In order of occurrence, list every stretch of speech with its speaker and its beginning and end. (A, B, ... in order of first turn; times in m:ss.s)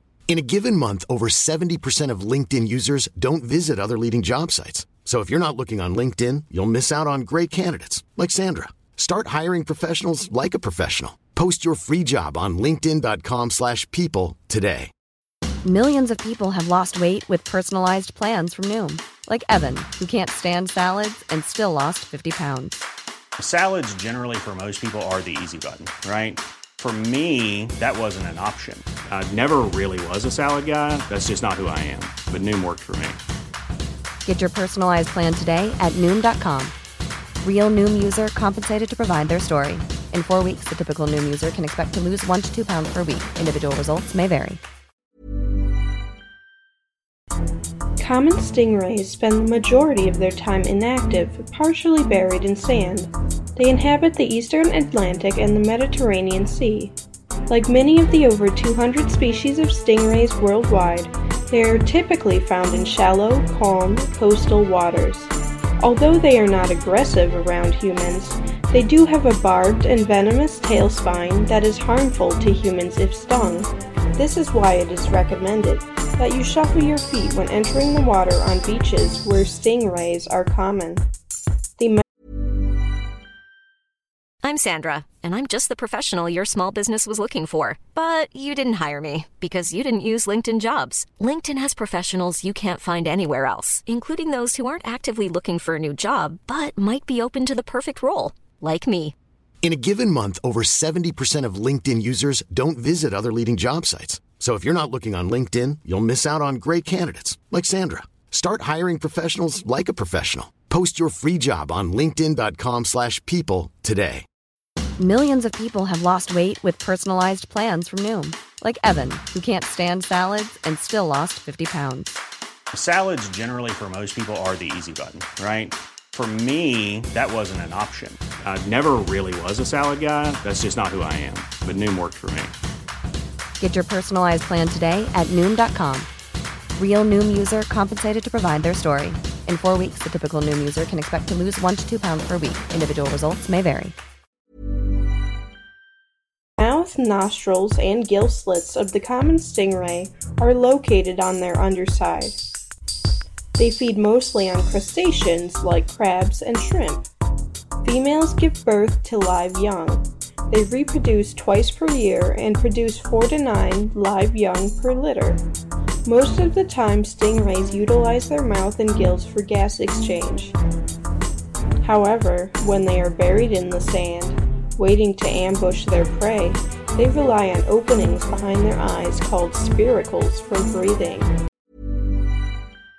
0:00.3-0:14.9 A
0:15.6-0:22.8 B
0:23.4-0:33.2 C
0:34.2-0:36.7 B
0:37.4-0:44.6 B
0:48.0-0:56.9 D
0:57.5-1:21.0 D
1:24.4-1:39.2 E
1:39.6-1:54.2 A
1:55.0-2:02.2 B
2:02.7-2:12.6 C
2:13.6-2:16.1 B
2:16.8-2:24.0 B
2:26.6-2:32.4 D
2:33.6-2:37.1 D
2:37.8-2:45.4 D
2:46.1-2:50.6 D
2:51.8-3:01.3 D